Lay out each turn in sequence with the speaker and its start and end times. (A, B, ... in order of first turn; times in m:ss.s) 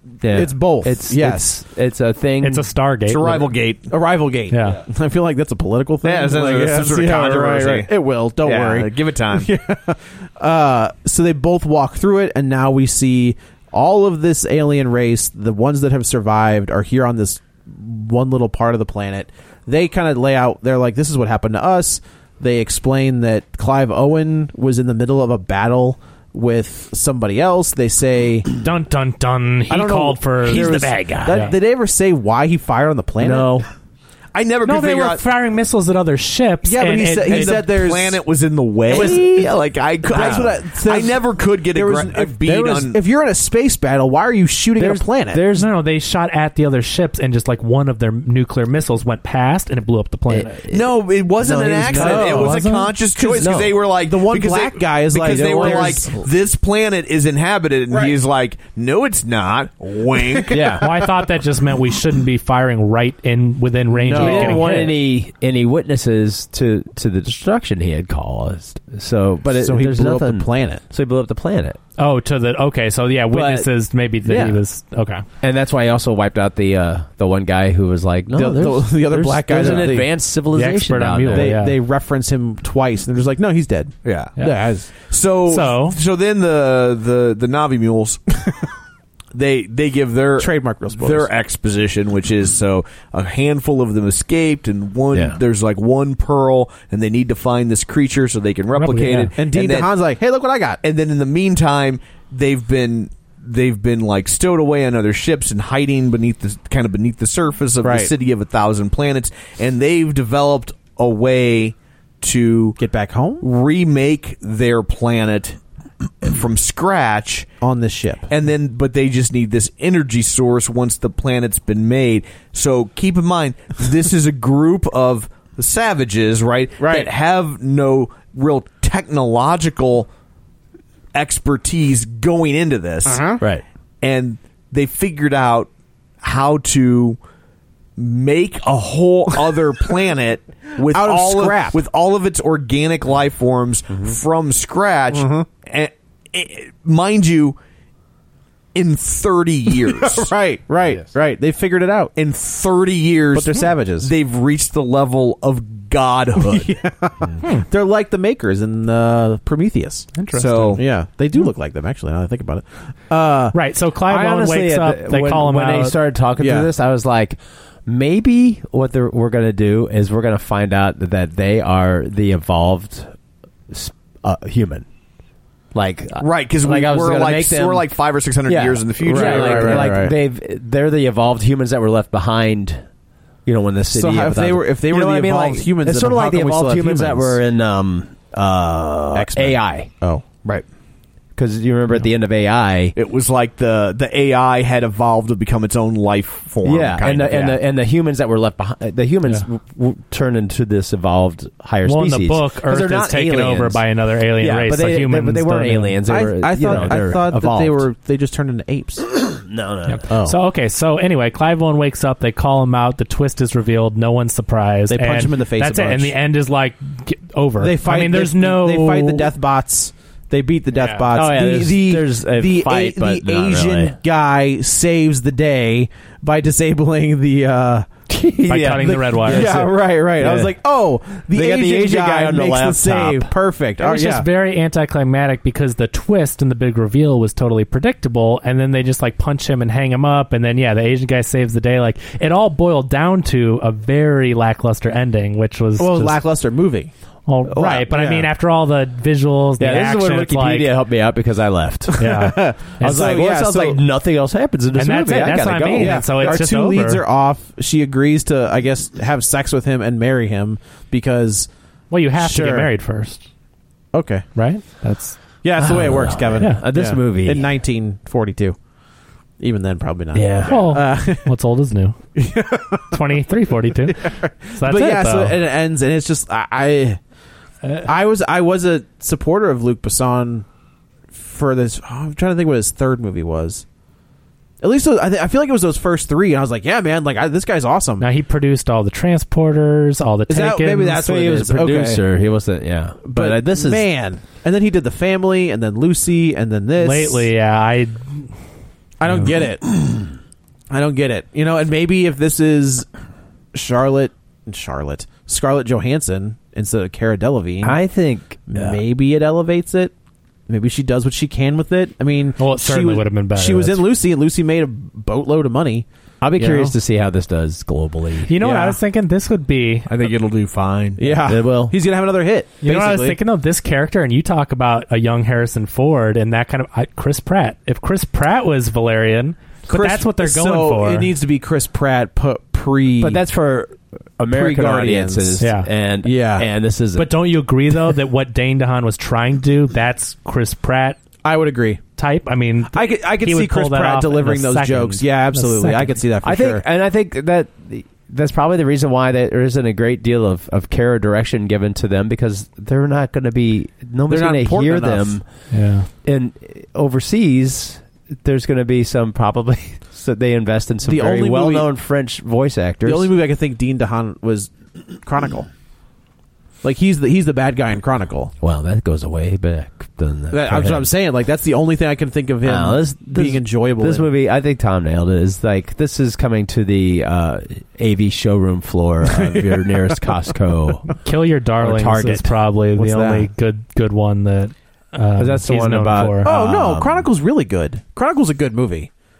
0:00.2-0:02.7 A
0:00.2-0:01.5 B
0:02.4-0:03.5 C
0:03.1-0:03.9 D
0:03.9-0:28.5 B
0:04.5-0:04.8 C
0:06.0-0:09.5 D
0:28.6-0:31.5 C
0:29.7-0:33.6 B
0:30.4-0:31.5 A
0:33.2-0:33.7 A
0:34.3-0:35.2 D
0:34.6-0:37.6 C
0:36.6-0:38.2 B
0:37.2-0:43.0 D
0:38.9-0:39.5 B
0:38.9-0:39.4 A
0:40.0-0:45.4 B
0:40.1-0:40.5 A
0:44.7-0:45.7 A
0:45.5-0:50.5 C
0:50.3-0:52.5 A
0:50.7-1:00.8 D
0:51.8-0:52.6 B
0:52.2-0:52.9 C
0:53.2-0:56.1 B
0:53.4-0:53.7 A
0:55.2-0:56.2 A
0:57.9-0:58.2 B
1:00.5-1:01.0 A
1:00.8-1:05.0 C
1:03.9-1:04.8 B
1:04.1-1:11.8 A
1:09.4-1:10.8 B
1:12.0-1:15.2 C
1:13.3-1:13.7 A
1:14.2-1:14.6 A
1:15.4-1:21.6 A
1:18.3-1:20.1 B
1:20.5-1:21.8 C
1:21.3-1:24.9 B
1:24.0-1:24.4 D
1:24.9-1:28.5 D
1:25.5-1:26.0 C
1:29.3-1:39.9 D
1:30.4-1:31.3 B
1:35.1-1:35.4 A
1:38.8-1:39.3 C
1:39.4-1:40.8 B
1:40.8-1:52.8 D
1:47.8-1:48.1 B
1:52.8-1:53.4 B
1:53.4-1:55.6 D
1:56.2-1:57.5 D
1:57.6-1:58.3 B
1:58.3-2:10.1 D
2:06.8-2:07.1 B
2:11.1-2:13.4 D
2:13.0-2:13.4 B
2:14.0-2:15.7 D
2:16.2-2:17.2 D
2:18.0-2:27.6 D
2:20.8-2:21.8 B
2:25.1-2:25.5 B
2:28.7-2:30.3 D
2:29.8-2:32.1 B
2:32.2-2:36.8 D
2:33.3-2:34.1 B
2:36.4-2:40.1 B
2:40.2-2:40.8 C
2:40.3-2:40.8 D
2:40.8-2:43.5 B
2:43.5-2:46.0 C
2:44.0-2:53.1 A
2:46.4-2:46.7 B
2:53.7-2:54.9 A
2:55.7-2:57.9 A
2:56.2-3:00.1 D
2:58.4-3:02.8 A
2:59.0-3:00.1 B
3:03.4-3:09.9 A
3:03.9-3:07.4 B
3:09.1-3:10.2 B
3:11.3-3:12.9 A
3:12.9-3:17.6 D
3:16.6-3:27.8 A
3:21.8-3:26.0 C
3:26.1-3:29.2 B
3:29.2-3:30.1 A
3:29.8-3:39.3 C
3:30.1-3:30.4 B
3:34.9-3:36.2 B
3:37.6-3:47.9 B
3:40.7-3:41.1 C
3:41.1-3:44.0 A
3:48.1-3:50.6 A
3:48.5-3:49.5 C
3:48.8-3:54.3 B
3:51.3-3:53.3 A
3:53.8-4:06.2 C
4:05.8-4:06.9 B
4:07.2-4:10.7 C
4:07.5-4:07.9 A
4:07.6-4:08.3 B
4:09.6-4:16.4 A
4:12.0-4:13.2 C
4:12.0-4:13.8 B
4:14.7-4:17.0 C
4:15.8-4:21.5 B
4:21.9-4:23.2 C
4:22.2-4:22.7 B
4:23.9-4:24.3 B
4:24.3-4:25.2 C
4:25.4-4:28.6 B
4:25.6-4:27.5 A
4:26.4-4:26.6 C
4:29.4-4:31.3 B
4:30.1-4:30.7 A
4:30.5-4:32.0 C
4:32.2-4:33.0 B
4:32.9-4:35.4 C
4:34.0-4:37.0 B
4:37.6-4:37.9 C
4:37.8-4:40.4 B
4:41.1-4:43.6 B
4:44.6-4:48.0 B
4:48.0-4:51.1 C
4:50.3-4:52.0 B
4:51.0-4:53.8 A
4:53.0-4:57.3 B
4:56.8-4:58.3 C
4:59.0-5:00.1 B
5:00.7-5:02.9 B
5:03.5-5:07.8 B
5:07.6-5:08.8 A
5:08.5-5:09.9 B
5:10.5-5:15.8 B
5:12.4-5:13.8 C
5:16.2-5:18.3 A
5:16.4-5:16.7 B
5:18.3-5:19.9 C
5:18.4-5:18.8 B
5:19.9-5:21.2 D
5:21.0-5:23.2 B
5:21.2-5:21.8 A
5:22.6-5:31.1 C
5:29.7-5:33.2 B
5:33.0-5:37.2 A
5:34.3-5:35.4 B
5:35.4-5:35.7 C
5:36.0-5:36.5 B
5:37.0-5:41.0 C
5:41.2-5:41.8 B
5:42.0-5:46.0 C
5:42.7-5:46.6 B
5:46.2-5:55.2 A
5:54.1-5:55.2 B
5:55.5-5:55.9 C
5:56.0-6:03.1 A
6:00.8-6:01.7 B
6:02.8-6:05.5 B
6:06.6-6:08.3 B
6:08.4-6:10.9 A
6:10.3-6:14.1 B
6:12.4-6:21.0 A
6:19.1-6:19.9 B
6:21.0-6:26.3 C
6:21.6-6:23.2 A
6:22.8-6:23.2 B
6:25.2-6:27.1 A
6:26.2-6:28.9 B